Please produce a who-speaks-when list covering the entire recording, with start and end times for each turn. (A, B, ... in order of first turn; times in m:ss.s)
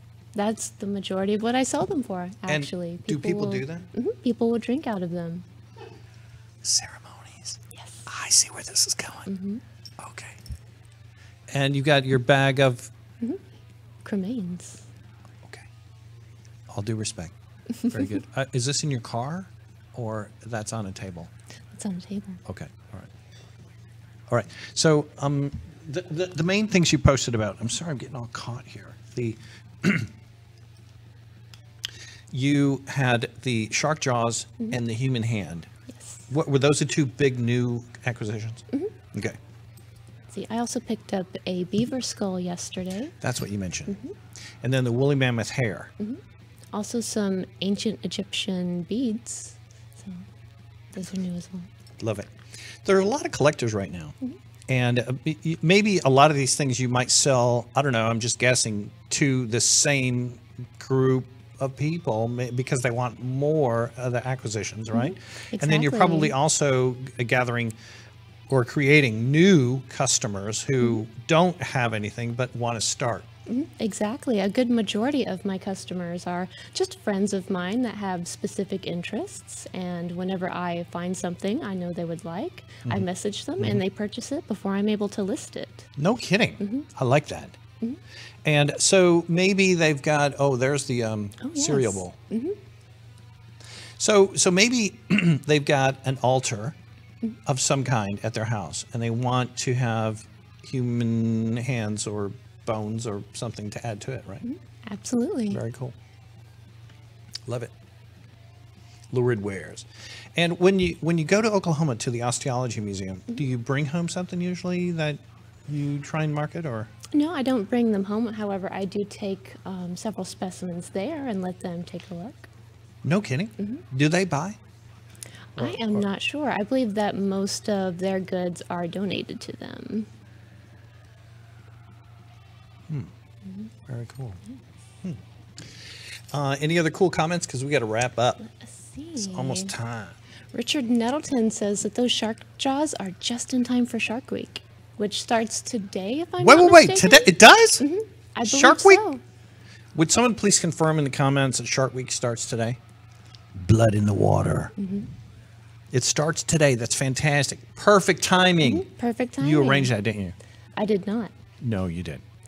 0:00.3-0:05.4 A
0:02.5-0:03.9 B
0:06.6-0:09.3 B
0:07.7-0:08.1 A
0:09.3-0:09.6 A
0:10.0-0:10.4 B
0:11.5-0:12.9 B
0:14.0-0:14.9 A
0:16.7-0:21.3 B
0:21.7-0:22.4 A
0:22.5-0:23.1 B
0:24.3-0:30.1 B
0:32.3-0:35.7 B
0:35.9-0:36.2 A
0:36.3-0:39.4 B
0:40.3-0:43.2 A
0:43.2-0:44.0 B
0:43.9-0:44.1 A
0:44.6-0:45.9 B
0:46.7-0:50.3 A
0:50.9-0:51.7 A
0:52.0-0:52.3 B
0:52.8-0:54.2 B
0:54.7-1:07.8 B
1:04.9-1:06.3 A
1:08.5-1:13.3 B
1:13.5-1:25.9 A
1:26.0-1:27.6 B
1:26.6-1:26.9 A
1:28.4-1:32.2 B
1:31.4-1:32.6 A
1:34.0-1:36.8 B
1:37.4-1:44.4 B
1:44.4-1:45.6 A
1:45.5-1:46.0 B
1:47.5-1:47.7 B
1:49.1-1:56.9 B
1:57.1-2:02.5 A
2:03.0-2:04.6 B
2:05.6-2:10.1 A
2:05.6-2:06.1 B
2:13.4-2:13.7 A
2:13.9-2:14.4 B
2:15.0-2:15.7 B
2:16.3-2:18.4 B
2:18.4-2:19.7 A
2:19.2-2:20.2 B
2:20.5-2:29.2 A
2:26.4-2:27.8 B
2:28.4-2:29.0 B
2:30.0-2:32.8 B
2:33.6-2:34.7 B
2:34.8-2:35.1 A
2:35.9-2:38.9 B
2:38.6-2:39.9 A
2:39.4-2:40.4 B
2:40.8-2:41.3 A
2:41.6-2:42.2 B